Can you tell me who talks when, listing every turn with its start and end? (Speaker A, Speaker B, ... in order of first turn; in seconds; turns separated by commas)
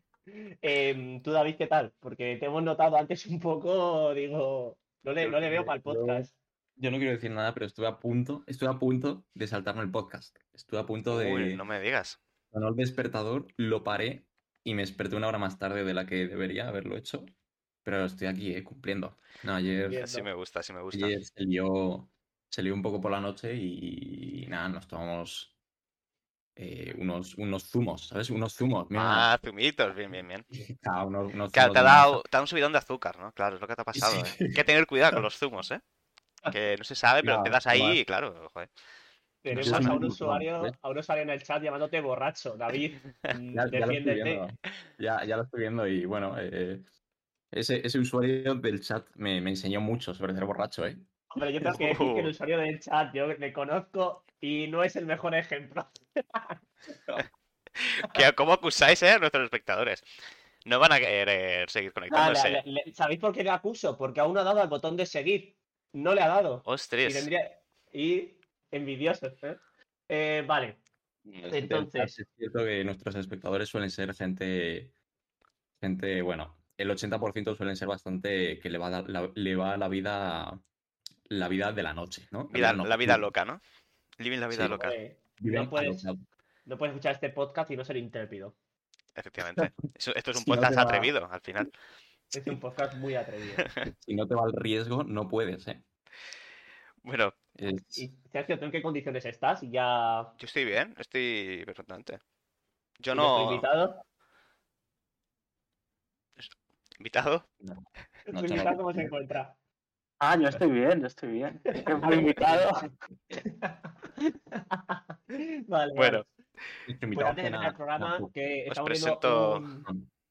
Speaker A: 0.3-6.3, Speaker B: 5.2-11.6, Speaker C: 11.1-12.2, Speaker B: 12.5-17.3, Speaker B: 17.9-20.1, Speaker A: 19.9-20.3, Speaker C: 19.9-21.1, Speaker B: 20.9-25.5, Speaker B: 26.6-29.3, Speaker C: 28.9-30.4, Speaker B: 30.5-32.2, Speaker C: 31.5-35.8, Speaker B: 34.0-35.2, Speaker C: 36.5-38.7, Speaker B: 37.2-38.0, Speaker A: 39.4-44.5, Speaker B: 39.5-40.8, Speaker C: 39.6-40.0, Speaker B: 43.5-46.9, Speaker B: 47.5-51.1, Speaker A: 51.3-56.6, Speaker C: 51.8-52.3, Speaker C: 57.8-60.1, Speaker C: 60.6-62.6, Speaker A: 62.1-70.8, Speaker C: 66.7-67.3, Speaker B: 71.3-74.9, Speaker A: 71.5-72.2, Speaker B: 75.8-80.6, Speaker B: 81.3-83.3, Speaker C: 82.5-83.6, Speaker C: 84.2-85.0, Speaker B: 84.5-84.8, Speaker A: 84.7-86.1, Speaker B: 85.4-86.2, Speaker A: 86.7-88.6, Speaker C: 89.2-91.7, Speaker B: 90.3-91.1, Speaker A: 92.3-93.7, Speaker C: 93.6-93.9, Speaker B: 93.9-95.8, Speaker C: 97.0-97.3, Speaker B: 97.6-98.1, Speaker A: 98.0-100.3, Speaker C: 100.4-102.2, Speaker C: 103.0-103.7, Speaker A: 103.1-104.0, Speaker C: 106.4-107.5, Speaker B: 107.6-109.2, Speaker A: 108.3-109.6, Speaker D: 110.2-112.8, Speaker A: 111.8-112.3, Speaker A: 113.5-116.3, Speaker C: 116.0-116.3, Speaker B: 116.9-118.3, Speaker A: 117.1-119.9, Speaker C: 118.7-119.7